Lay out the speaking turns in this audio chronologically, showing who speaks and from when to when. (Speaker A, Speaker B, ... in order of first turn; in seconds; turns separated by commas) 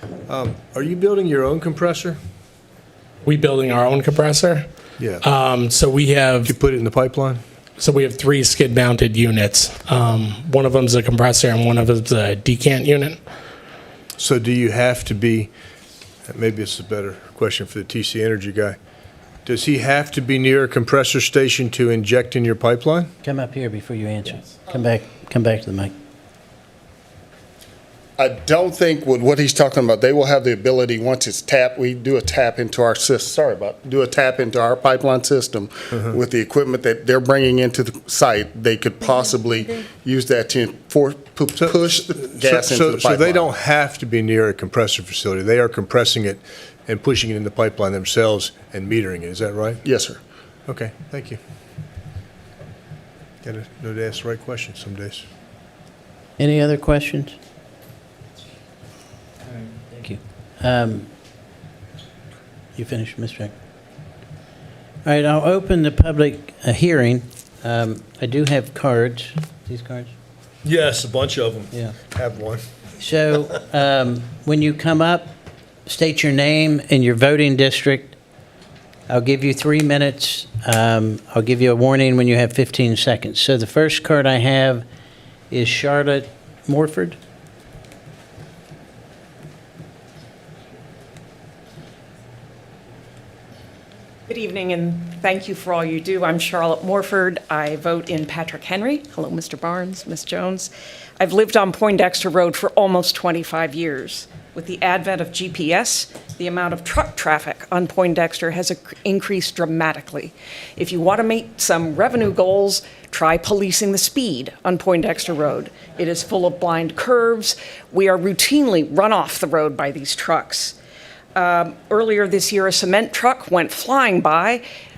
Speaker A: 0.3-2.2, Speaker B: 3.2-6.5, Speaker A: 5.0-5.3, Speaker A: 6.4-7.4, Speaker B: 7.8-13.3, Speaker A: 14.2-15.5, Speaker A: 16.3-18.8, Speaker A: 19.4-23.1, Speaker C: 23.2-25.9, Speaker D: 28.2-43.5, Speaker A: 41.6-49.8, Speaker D: 49.9-50.2, Speaker A: 50.7-51.4, Speaker A: 53.4-55.3, Speaker C: 56.4-57.4, Speaker C: 59.9-61.1, Speaker C: 62.8-63.5, Speaker C: 65.0-70.1, Speaker A: 70.6-72.6, Speaker C: 73.0-75.3, Speaker C: 75.9-78.2, Speaker C: 79.1-84.9, Speaker C: 85.5-87.2, Speaker E: 94.3-120.8, Speaker E: 121.3-124.6